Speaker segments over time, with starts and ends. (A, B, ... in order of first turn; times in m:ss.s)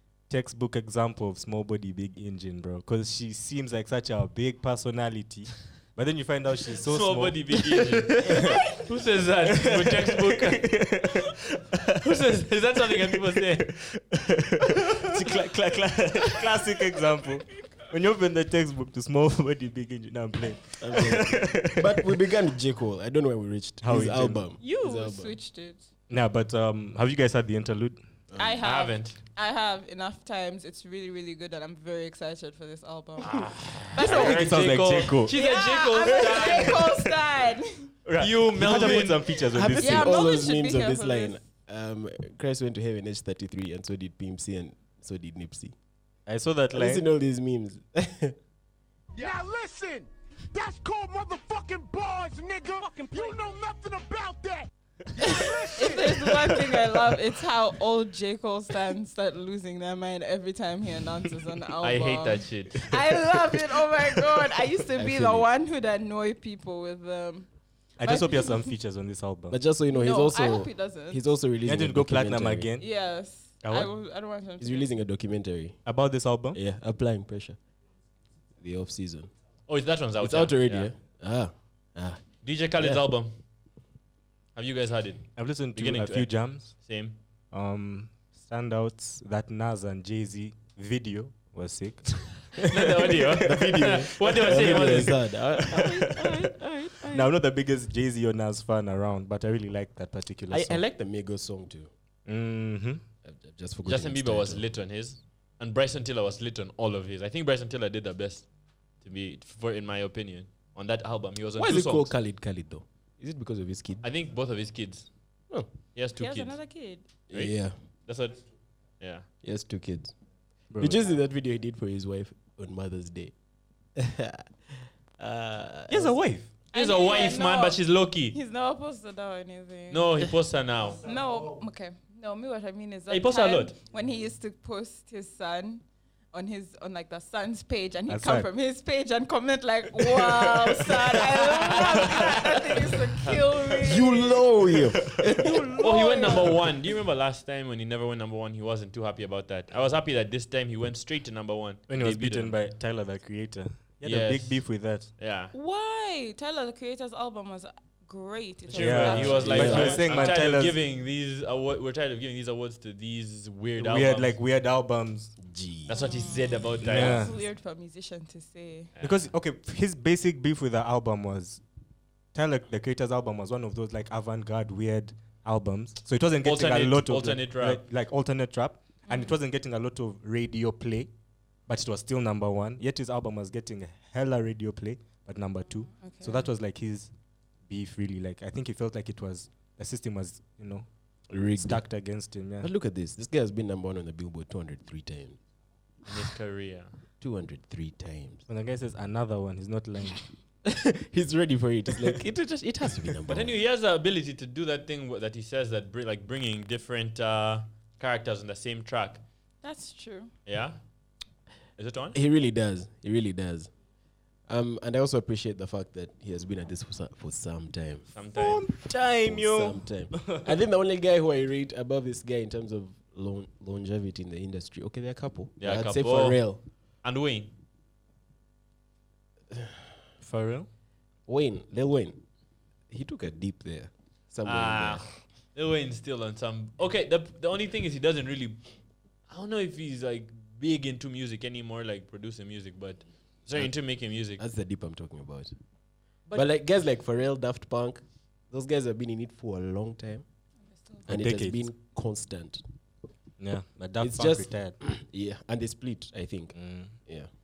0:00.3-0:07.6 A
0:06.8-0:10.9 B
0:09.5-0:12.0 A
0:12.0-0:13.8 B
0:13.0-0:22.2 A
0:15.1-0:15.3 C
0:20.8-0:25.4 C
0:23.8-0:24.4 A
0:24.6-0:25.9 D
0:26.1-0:28.0 A
0:28.3-0:28.6 C
0:28.4-0:34.7 D
0:28.6-0:29.2 B
0:33.2-0:36.9 B
0:34.0-0:35.4 A
0:35.3-0:37.9 D
0:36.0-0:37.2 A
0:38.1-0:39.3 B
0:38.2-0:40.2 A
0:38.6-0:45.8 C
0:39.8-0:41.4 D
0:46.3-0:47.1 A
0:46.7-0:48.4 C
0:49.2-0:56.3 E
0:55.3-1:08.7 D
1:01.8-1:03.0 B
1:04.9-1:05.5 C
1:08.0-1:09.6 A
1:09.5-1:12.7 C
1:09.9-1:11.2 D
1:11.6-1:12.9 A
1:12.8-1:14.9 D
1:13.6-1:13.9 A
1:14.6-1:15.8 C
1:15.8-1:16.6 A
1:16.5-1:17.6 C
1:18.6-1:19.3 C
1:19.7-1:20.9 B
1:20.2-1:23.0 C
1:22.4-1:23.4 B
1:24.6-1:27.2 B
1:25.4-1:26.8 A
1:27.5-1:33.4 A
1:32.6-1:35.3 B
1:33.4-1:37.2 C
1:35.7-1:36.4 A
1:37.0-1:40.8 A
1:40.5-1:41.9 C
1:42.3-1:43.0 A
1:43.2-1:44.6 C
1:43.8-1:48.5 B
1:49.0-1:52.2 B
1:51.6-1:54.1 C
1:54.0-1:55.2 B
1:55.9-1:56.6 B
1:56.2-1:57.1 D
1:57.3-1:58.4 B
1:57.3-1:57.7 C
1:59.0-1:59.3 B
1:59.4-2:00.2 C
2:00.7-2:01.0 A
2:00.8-2:03.3 C
2:04.0-2:04.4 C
2:05.2-2:06.2 C
2:05.9-2:06.5 A
2:06.7-2:10.3 D
2:06.7-2:08.4 B
2:09.9-2:11.0 B
2:11.0-2:24.4 D
2:13.1-2:13.8 B
2:18.1-2:18.5 A
2:20.1-2:20.6 A
2:23.2-2:23.5 B
2:23.8-2:26.5 C
2:25.7-2:26.5 D
2:25.8-2:32.6 B
2:31.9-2:35.1 A
2:34.0-2:35.5 B
2:35.5-2:40.3 D
2:38.7-2:44.3 B
2:38.8-2:40.8 A
2:39.4-2:40.1 C
2:43.8-2:45.4 A
2:45.4-2:46.0 C
2:45.9-2:47.3 B
2:45.9-2:48.9 D
2:46.8-2:47.4 A
2:49.0-2:49.3 B
2:49.0-2:51.6 A
2:52.3-3:01.1 A
2:56.4-2:57.8 B
2:59.1-2:59.3 D
3:01.7-3:07.1 A
3:05.8-3:06.5 D
3:07.7-3:10.9 A
3:11.3-3:11.9 C
3:11.5-3:12.7 A
3:12.6-3:15.4 C
3:16.1-3:17.0 B
3:17.2-3:18.5 C
3:18.5-3:20.2 A
3:20.6-3:23.6 C
3:23.3-3:29.2 B
3:29.6-3:30.3 D
3:30.5-3:30.8 B
3:31.8-3:32.2 B
3:32.1-3:33.7 C
3:34.5-3:38.2 C
3:38.1-3:38.7 B
3:38.3-3:40.5 A
3:39.2-3:46.6 C
3:45.6-3:47.5 B
3:50.2-3:50.7 A
3:51.3-3:52.2 C
3:52.9-3:55.1 C
3:54.4-3:58.6 B
3:59.3-4:04.4 B
4:03.6-4:05.6 C
4:06.3-4:10.2 C
4:10.7-4:11.1 D
4:11.1-4:12.6 C
4:11.1-4:11.7 A
4:13.4-4:14.8 A
4:14.0-4:17.3 C
4:16.6-4:17.0 A